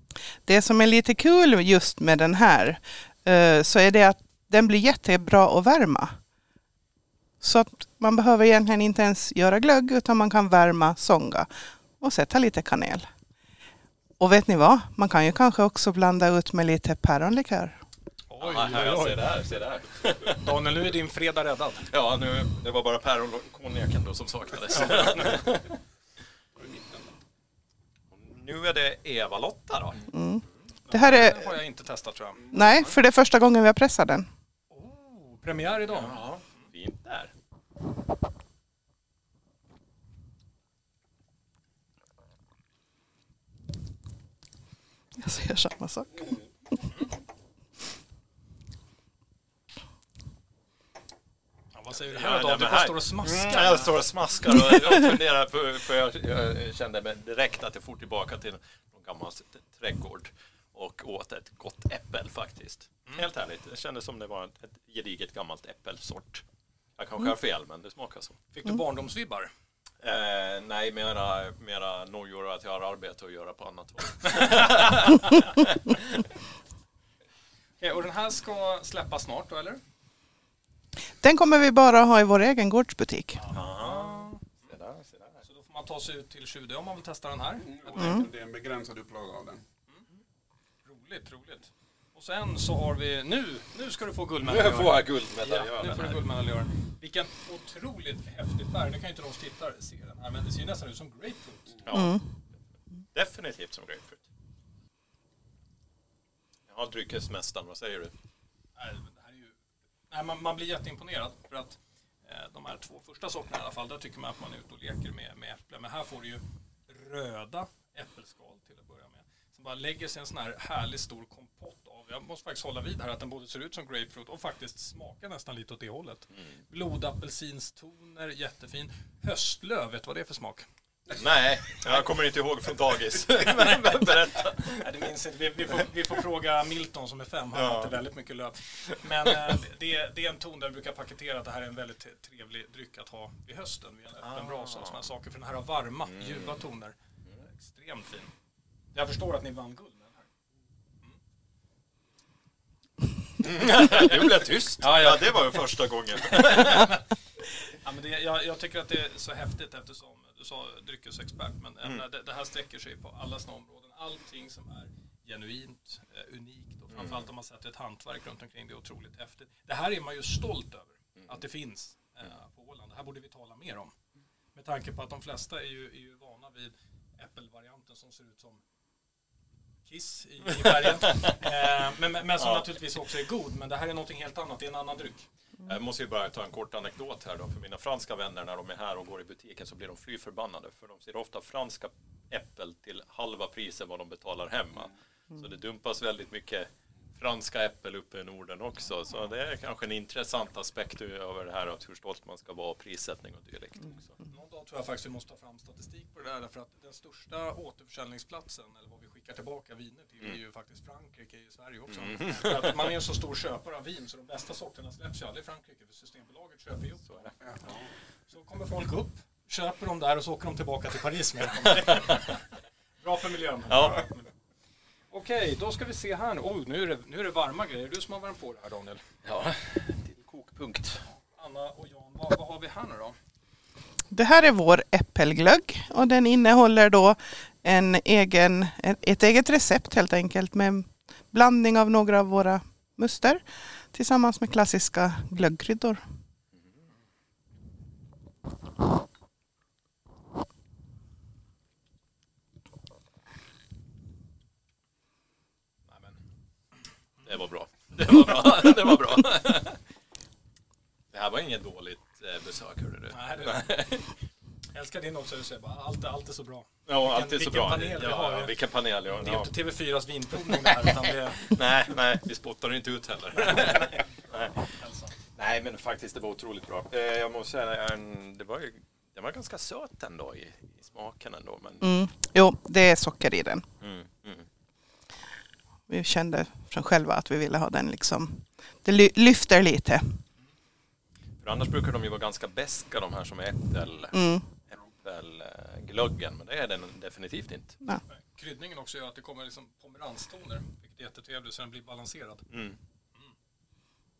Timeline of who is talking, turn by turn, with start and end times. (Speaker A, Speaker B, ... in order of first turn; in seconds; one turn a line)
Speaker A: 0.5-6.1
Speaker A: 7.4-11.5
Speaker A: 12.0-13.0
Speaker A: 14.2-17.8
Speaker B: 18.3-19.2
Speaker C: 18.4-20.5
Speaker B: 20.2-21.9
Speaker C: 21.9-25.8
Speaker D: 26.6-27.1
Speaker C: 28.1-30.1
Speaker A: 30.1-31.5
Speaker B: 30.9-32.4
Speaker A: 32.5-34.3
Speaker B: 34.7-36.2
Speaker C: 35.9-37.3
Speaker A: 45.2-46.2
Speaker B: 51.7-53.9
Speaker C: 52.1-66.4
Speaker C: 67.0-68.4
Speaker B: 68.5-69.5
Speaker C: 70.0-76.3
Speaker B: 74.3-74.9
Speaker B: 77.8-79.8
Speaker A: 81.2-83.4
Speaker B: 83.5-84.4
Speaker C: 83.5-85.4
Speaker B: 85.5-88.2
Speaker D: 87.7-89.6
Speaker A: 88.0-88.2
Speaker B: 90.8-101.9
Speaker C: 94.4-96.2
Speaker C: 101.8-102.2
Speaker A: 101.9-102.2
Speaker C: 103.1-104.2
Speaker C: 106.7-108.1
Speaker B: 108.8-109.5
Speaker B: 110.1-130.7
Speaker C: 131.1-134.8
Speaker B: 133.6-134.1
Speaker B: 134.7-146.9
Speaker C: 137.5-137.9
Speaker C: 144.3-144.9
Speaker C: 146.1-146.5
Speaker B: 147.5-148.2
Speaker B: 148.9-150.2
Speaker C: 153.4-157.0
Speaker B: 154.8-155.1
Speaker B: 156.4-157.0
Speaker B: 157.8-173.9
Speaker C: 166.9-167.2
Speaker B: 174.5-178.6
Speaker B: 179.9-185.3
Speaker C: 180.6-181.4
Speaker C: 182.4-182.7
Speaker C: 185.6-204.2
Speaker B: 204.3-217.1
Speaker C: 211.9-212.9
Speaker B: 218.3-222.3
Speaker C: 221.7-222.2
Speaker B: 223.0-224.2
Speaker C: 223.7-224.0
Speaker B: 225.1-229.0
Speaker C: 229.2-231.0
Speaker B: 231.3-233.2
Speaker A: 234.1-243.4
Speaker A: 243.9-246.0
Speaker C: 257.2-259.8
Speaker C: 261.1-264.1
Speaker B: 263.1-263.8
Speaker B: 264.7-268.5
Speaker C: 266.9-269.5
Speaker B: 269.1-271.6
Speaker C: 270.5-274.7
Speaker B: 273.4-273.9
Speaker B: 274.7-275.1
Speaker C: 275.4-281.8
Speaker A: 281.8-283.6
Speaker C: 283.8-284.5
Speaker A: 285.9-290.2
Speaker C: 291.4-294.1
Speaker A: 294.1-294.4
Speaker C: 294.7-297.8
Speaker B: 298.3-302.4
Speaker C: 302.5-302.8